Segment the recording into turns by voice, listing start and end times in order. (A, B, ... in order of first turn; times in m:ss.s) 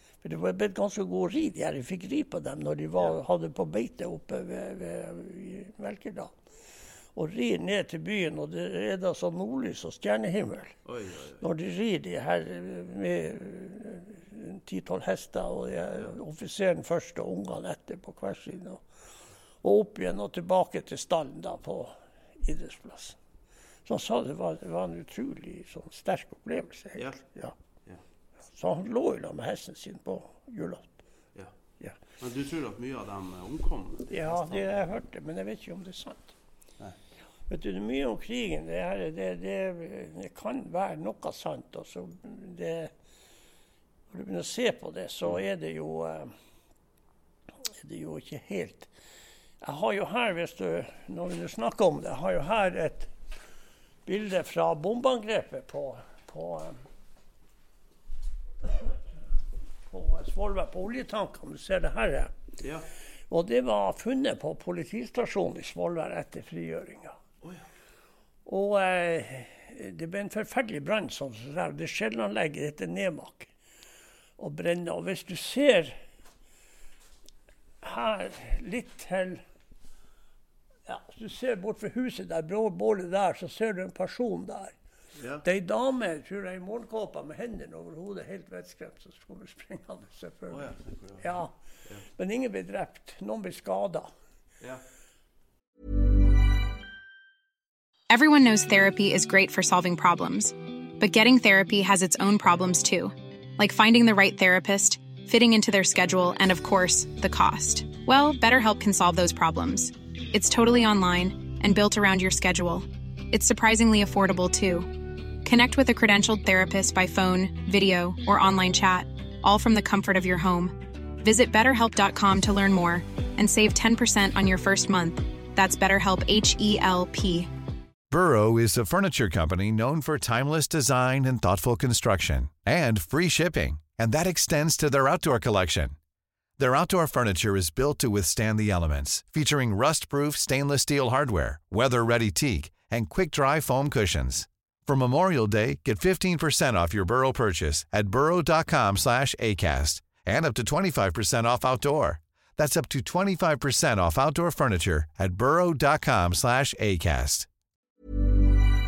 0:00.2-0:06.3 A
0:07.1-0:10.8 A
0:10.8-0:11.4 B
0:11.4-0:18.8 A
0:19.6-0:23.2 A
0:23.8-0:27.5 A
0:28.5-0:30.9 A
0:32.2-0:34.8 B
0:34.1-0:36.3 A
0:37.5-0:42.9 A
0:44.1-0:46.3 A
0:47.8-0:48.9 A
0:49.6-0:53.1 A
0:54.0-0:56.8 A
0:58.6-0:58.9 A
0:59.9-1:02.3 A
1:02.6-1:02.9 B
1:03.3-1:07.2 A
1:08.4-1:13.5 A
1:14.4-1:16.0 A
1:17.8-1:19.4 A
1:20.8-1:24.7 A
1:25.2-1:25.4 B
1:25.4-1:31.5 A
1:30.5-1:32.0 B
1:32.2-1:34.1 A
1:38.1-2:07.5 C
2:08.1-2:15.9 D
2:16.6-2:37.5 D